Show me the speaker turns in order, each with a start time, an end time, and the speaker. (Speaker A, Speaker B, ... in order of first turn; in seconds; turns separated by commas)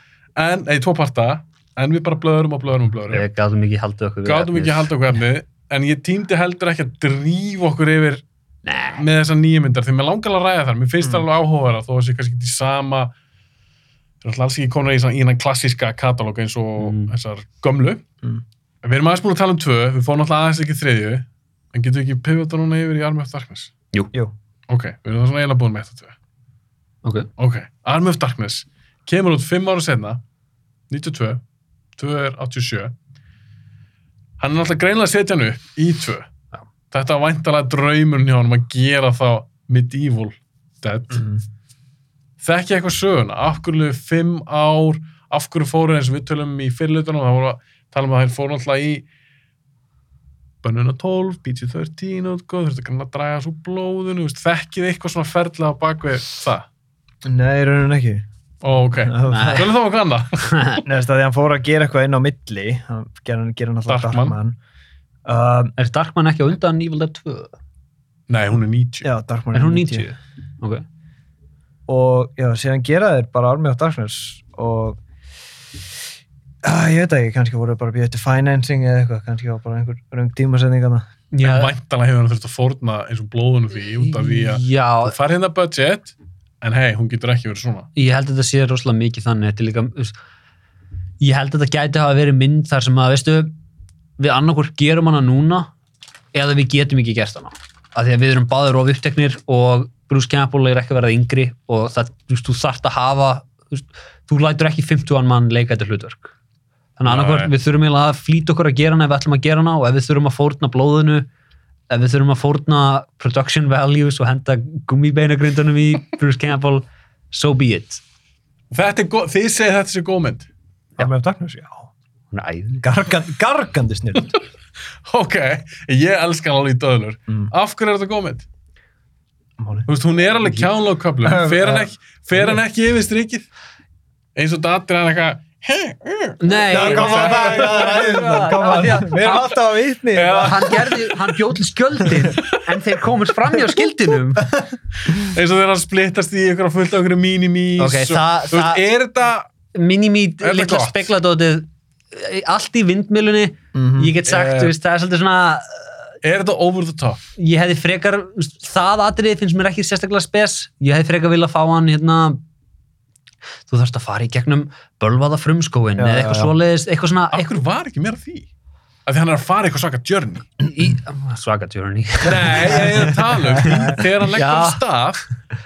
Speaker A: 0.3-3.2, Speaker B: 3.1-4.9, Speaker A: 4.2-8.2, Speaker B: 8.6-9.0, Speaker A: 8.9-13.1, Speaker A: 14.2-18.0, Speaker B: 16.8-17.1, Speaker A: 18.8-23.7, Speaker A: 24.7-26.1, Speaker B: 27.0-27.3, Speaker A: 27.4-30.2, Speaker A: 30.9-31.4, Speaker A: 32.0-32.9, Speaker A: 34.4-36.3, Speaker A: 36.9-41.3, Speaker A: 42.4-49.0, Speaker A: 50.6-56.6, Speaker C: 57.2-58.2, Speaker A: 58.6-60.4, Speaker C: 59.0-59.6, Speaker B: 59.3-59.7, Speaker B: 60.5-60.8, Speaker C: 60.8-64.6, Speaker A: 63.9-64.4, Speaker C: 65.2-65.7, Speaker B: 65.8-67.5, Speaker A: 68.3-69.0, Speaker C: 69.0-70.1, Speaker B: 69.5-70.8, Speaker C: 71.9-75.0, Speaker C: 76.6-81.0, Speaker B: 81.3-81.7, Speaker A: 81.4-87.9, Speaker B: 84.0-85.1, Speaker B: 87.9-90.2, Speaker B: 91.2-93.5, Speaker B: 94.2-95.7, Speaker B: 96.3-106.3, Speaker B: 107.0-111.2, Speaker A: 107.0-107.5, Speaker B: 111.9-118.0, Speaker A: 118.7-120.5, Speaker C: 121.0-121.9, Speaker B: 122.3-122.8, Speaker C: 122.8-124.3, Speaker A: 125.0-128.4, Speaker C: 129.6-129.9, Speaker A: 129.9-133.5, Speaker C: 131.2-132.6, Speaker A: 134.3-138.2, Speaker B: 136.4-139.5, Speaker C: 136.7-140.9, Speaker A: 139.2-139.4, Speaker A: 140.1-141.3, Speaker B: 140.4-144.5, Speaker A: 145.1-149.5, Speaker B: 147.8-148.8, Speaker B: 149.7-156.1, Speaker A: 150.4-151.1, Speaker C: 153.7-154.1, Speaker A: 154.2-154.7, Speaker A: 156.2-157.2, Speaker B: 157.3-162.4, Speaker B: 163.7-167.5, Speaker C: 166.0-166.5, Speaker A: 167.3-168.5, Speaker A: 169.1-170.5, Speaker B: 170.6-174.8, Speaker A: 172.2-175.3